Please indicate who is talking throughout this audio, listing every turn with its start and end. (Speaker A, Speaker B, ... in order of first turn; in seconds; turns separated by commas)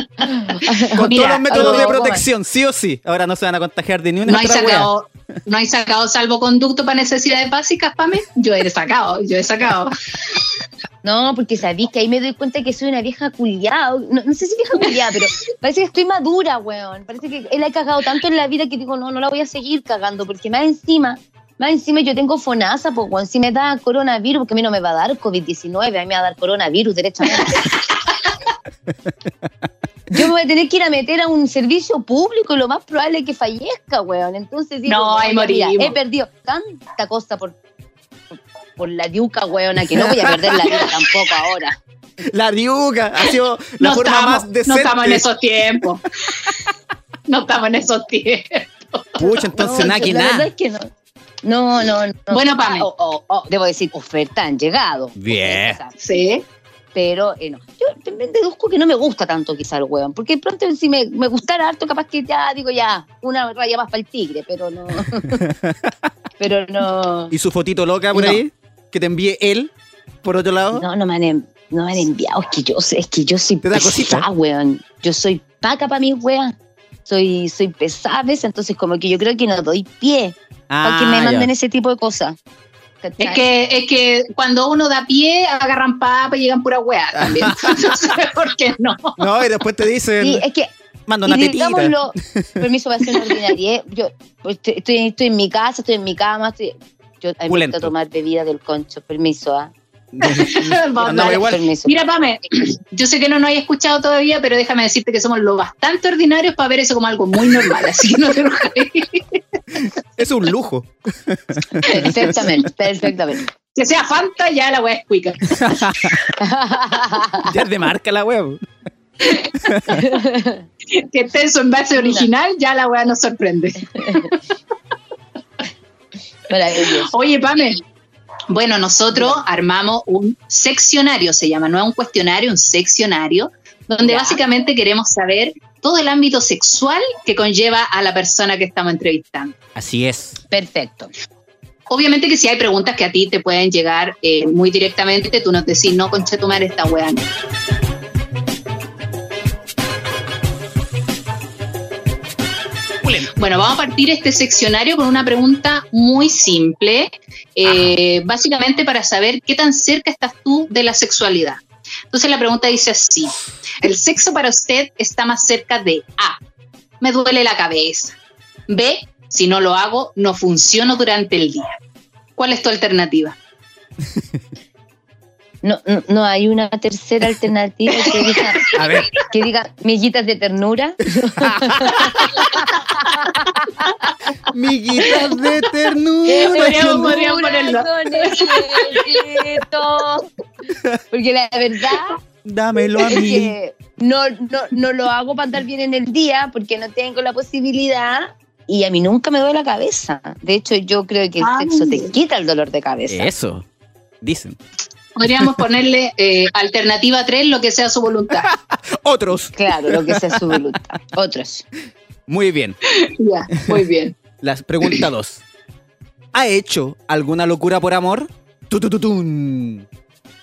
Speaker A: 0.4-2.2, Speaker B: 0.9-1.9, Speaker C: 0.9-4.9, Speaker B: 4.3-9.9, Speaker A: 11.0-27.7, Speaker A: 30.1-37.6, Speaker B: 34.9-36.0, Speaker A: 38.3-41.8, Speaker C: 39.9-40.7, Speaker C: 42.3-45.2, Speaker B: 43.8-46.6, Speaker B: 47.3-49.2, Speaker C: 49.2-50.5, Speaker A: 49.2-50.9, Speaker A: 51.4-56.0, Speaker B: 52.3-52.9, Speaker C: 55.2-55.8, Speaker B: 56.0-56.5, Speaker A: 57.0-65.5, Speaker C: 65.3-66.1, Speaker A: 66.4-67.3, Speaker C: 67.3-69.7, Speaker A: 68.1-68.4, Speaker C: 70.2-70.8, Speaker A: 70.7-76.5, Speaker C: 73.6-74.3, Speaker A: 77.1-82.4, Speaker C: 80.7-81.5, Speaker A: 83.0-83.5, Speaker B: 83.2-89.2, Speaker C: 87.2-87.9, Speaker C: 89.2-90.4, Speaker A: 90.2-90.7, Speaker C: 91.1-92.6, Speaker A: 91.2-99.7, Speaker C: 97.5-97.9, Speaker C: 100.1-101.6, Speaker B: 100.2-109.4, Speaker A: 101.0-102.0, Speaker C: 109.8-112.1, Speaker A: 111.8-113.5, Speaker B: 111.9-112.2, Speaker B: 113.8-115.6, Speaker C: 115.5-116.2, Speaker A: 116.4-117.5, Speaker C: 117.4-118.6, Speaker C: 119.7-120.0, Speaker A: 119.9-120.7, Speaker B: 120.9-124.4, Speaker A: 122.0-122.3, Speaker A: 124.0-124.3, Speaker A: 126.5-127.1, Speaker B: 126.8-127.8, Speaker B: 128.5-139.6, Speaker A: 129.2-129.4, Speaker A: 134.0-134.4, Speaker C: 139.8-140.4, Speaker A: 140.5-141.1, Speaker B: 141.9-147.3, Speaker C: 153.0-153.3, Speaker B: 153.3-166.4, Speaker B: 167.0-168.2, Speaker B: 168.7-171.7, Speaker B: 172.4-173.4, Speaker A: 175.6-183.9, Speaker B: 178.0-178.8, Speaker C: 178.8-179.1, Speaker C: 181.4-182.1, Speaker C: 184.5-187.2, Speaker A: 186.3-190.3, Speaker B: 186.4-189.4, Speaker A: 191.1-192.2, Speaker C: 192.4-193.5, Speaker A: 193.1-203.3, Speaker B: 201.4-202.1, Speaker C: 203.1-203.7, Speaker C: 204.2-204.6, Speaker B: 205.2-208.5, Speaker C: 208.4-210.6, Speaker A: 209.6-211.7, Speaker C: 212.3-212.8, Speaker B: 212.9-214.2, Speaker C: 214.4-215.4, Speaker C: 216.3-219.9